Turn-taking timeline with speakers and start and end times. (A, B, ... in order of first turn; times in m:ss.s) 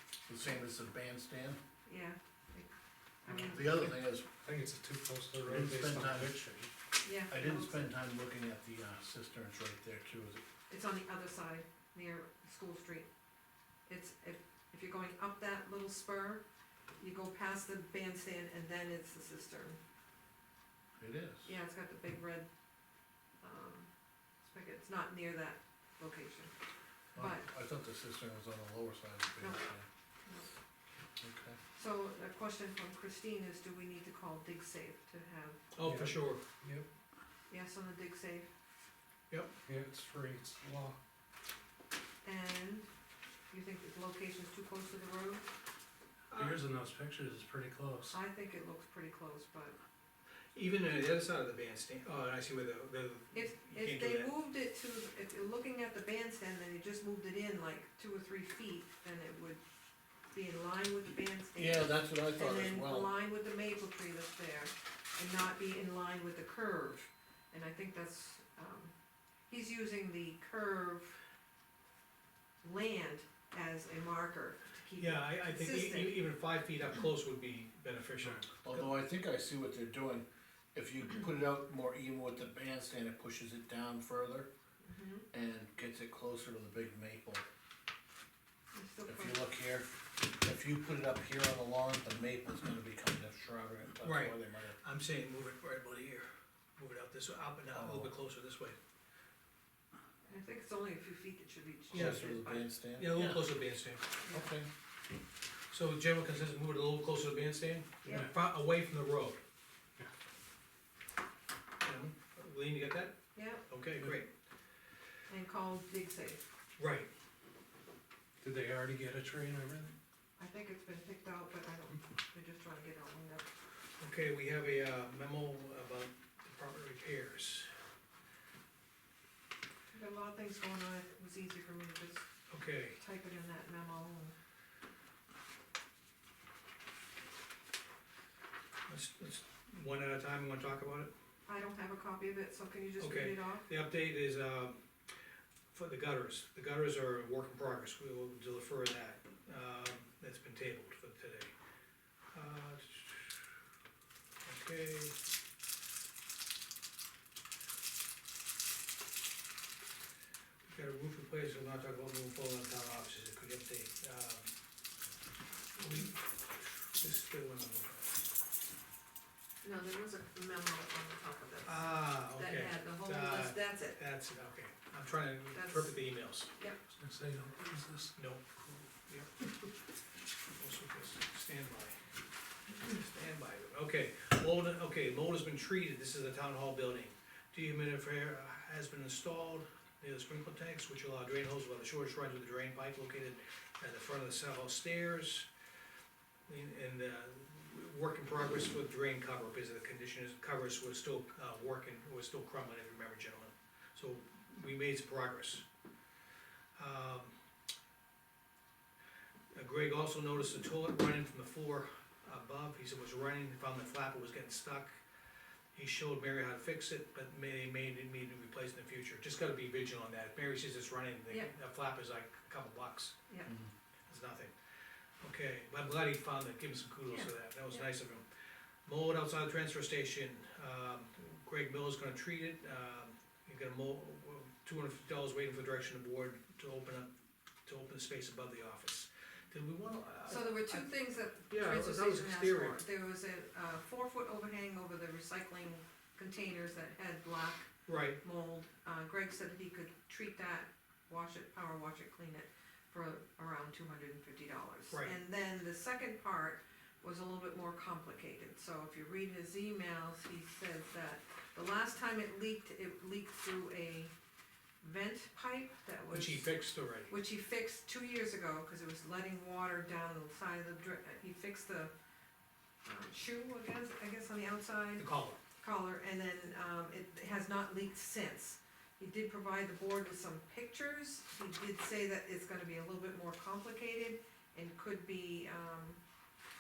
0:00.3-0:01.6 A
0:01.9-0:02.7 B
0:03.2-0:03.9 B
0:03.3-0:04.3 A
0:04.4-0:06.7 C
0:05.4-0:06.4 A
0:07.0-0:07.9 B
0:07.3-0:10.4 A
0:10.7-0:13.1 B
0:13.9-0:16.4 B
0:17.0-0:19.8 B
0:21.0-0:21.5 A
0:21.4-0:22.5 B
0:23.4-0:23.9 B
0:24.4-0:26.5 B
0:27.2-0:29.9 A
0:27.2-0:27.4 B
0:31.2-0:31.6 A
0:31.8-0:35.6 B
0:35.7-0:36.4 D
0:35.8-0:36.9 C
0:37.5-0:38.5 B
0:39.7-0:41.0 C
0:42.2-0:42.9 B
0:43.5-0:45.5 B
0:46.3-0:46.6 D
0:46.4-0:48.2 C
0:48.1-0:49.8 B
0:50.5-0:54.3 D
0:53.3-0:59.6 B
1:00.3-1:08.9 B
1:01.6-1:03.1 A
1:09.5-1:11.2 B
1:12.6-1:16.2 B
1:15.0-1:18.6 D
1:18.6-1:24.5 A
1:24.8-1:25.3 B
1:25.3-1:27.4 A
1:28.7-1:29.5 B
1:29.1-1:34.8 A
1:34.0-1:38.8 D
1:37.7-1:38.1 A
1:40.3-1:42.7 B
1:41.9-1:43.5 A
1:41.9-1:42.2 D
1:43.0-1:44.1 D
1:44.3-1:44.5 B
1:44.3-1:44.7 A
1:45.7-1:49.4 D
1:48.0-1:48.3 B
1:51.8-1:53.2 D
1:53.4-1:53.6 B
1:53.7-1:54.3 D
1:55.3-1:56.4 B
1:56.8-1:57.1 D
1:58.4-1:59.9 C
2:00.4-2:03.5 B
2:04.0-2:07.7 D
2:09.9-2:12.3 B
2:12.5-2:13.0 D
2:13.0-2:14.4 B
2:18.9-2:21.1 D
2:21.5-2:23.7 B
2:23.0-2:24.8 D
2:25.7-2:31.5 D
2:32.3-2:33.5 D
2:34.4-2:35.2 D
2:40.7-2:44.5 D
2:45.8-2:48.2 D
2:49.6-2:54.0 B
2:51.6-2:56.5 D
2:55.5-2:56.0 B
2:56.9-2:58.8 C
2:58.2-2:59.5 D
3:00.6-3:02.0 D
3:02.8-3:15.5 D
3:16.5-3:25.6 D
3:26.8-3:27.3 D
3:29.5-3:35.0 D
3:35.7-3:43.2 D
3:44.1-3:44.5 D
3:45.2-3:48.2 D
3:47.1-3:47.9 B
3:48.9-3:57.1 D
3:57.7-4:02.8 D
4:00.3-4:07.7 B
4:07.9-4:08.2 D
4:08.2-4:24.1 B
4:24.8-4:26.6 B
4:26.1-4:27.1 D
4:27.1-4:31.9 B
4:32.8-4:35.1 B
4:35.0-4:35.4 D
4:35.6-4:46.0 B